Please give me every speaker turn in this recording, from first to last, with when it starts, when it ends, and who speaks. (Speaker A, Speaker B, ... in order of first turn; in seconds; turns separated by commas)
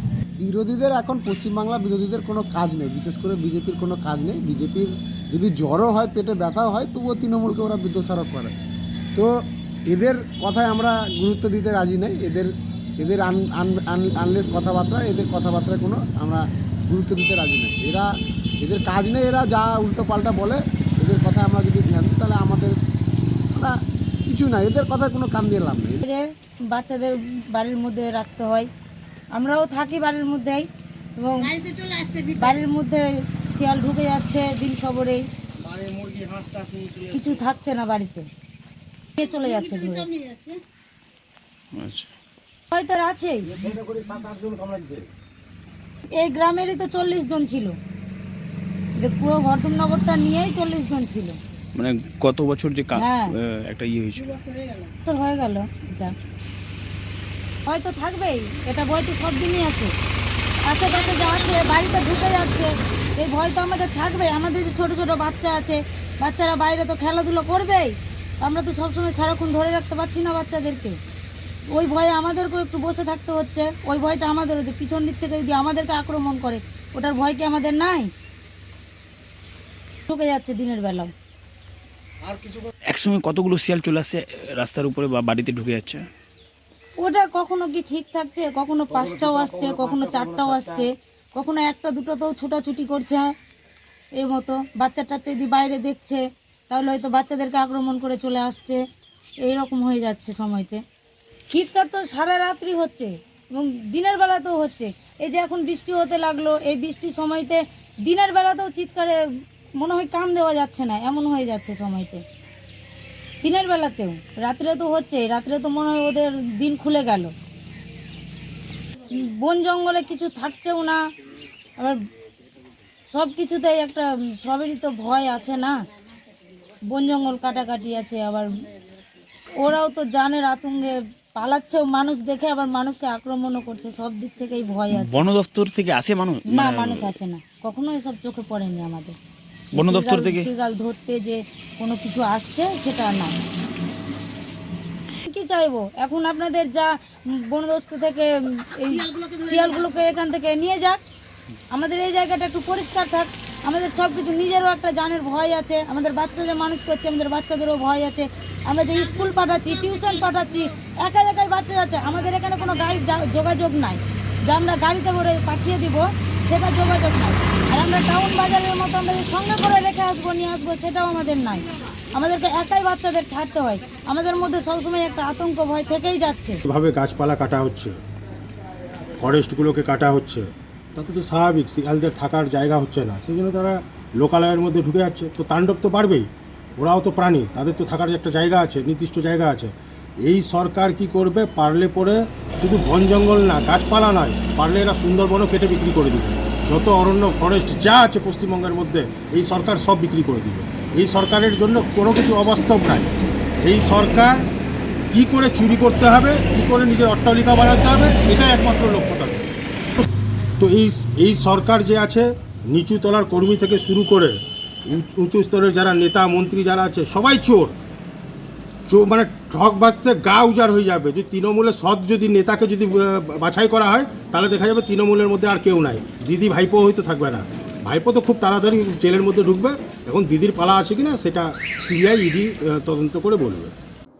Speaker A: 0.4-8.5, Speaker A: 9.9-18.1, Speaker A: 18.6-22.8, Speaker A: 24.3-26.0, Speaker B: 26.0-28.7, Speaker B: 29.3-30.7, Speaker B: 31.2-31.5, Speaker C: 31.4-32.6, Speaker B: 32.4-35.2, Speaker B: 37.1-38.3, Speaker B: 39.2-40.1, Speaker C: 39.2-40.6, Speaker D: 41.7-42.1, Speaker B: 42.7-43.5, Speaker E: 43.7-44.9, Speaker B: 46.2-47.8, Speaker B: 49.0-51.4, Speaker D: 51.7-54.3, Speaker B: 52.9-53.3, Speaker C: 54.1-55.0, Speaker B: 55.0-56.1, Speaker B: 57.6-59.9, Speaker B: 60.7-71.0, Speaker C: 60.9-61.8, Speaker B: 71.7-78.1, Speaker B: 80.1-81.1, Speaker D: 82.9-86.1, Speaker B: 87.0-93.3, Speaker B: 94.2-98.8, Speaker B: 99.4-100.8, Speaker B: 101.5-109.2, Speaker B: 109.8-112.2, Speaker B: 113.4-117.3, Speaker B: 119.1-121.0, Speaker B: 123.1-125.8, Speaker B: 126.9-128.5, Speaker B: 129.6-135.2, Speaker D: 134.9-137.1, Speaker B: 136.5-139.2, Speaker B: 139.7-143.3, Speaker D: 139.7-140.5, Speaker B: 145.2-151.0, Speaker C: 148.8-150.2, Speaker B: 151.7-171.6, Speaker C: 159.1-160.4, Speaker B: 172.1-176.6, Speaker E: 176.6-177.9, Speaker E: 179.2-189.7, Speaker E: 190.2-203.1, Speaker E: 203.6-204.4, Speaker E: 205.1-209.4, Speaker E: 210.6-214.3, Speaker E: 214.9-217.7, Speaker E: 218.9-233.7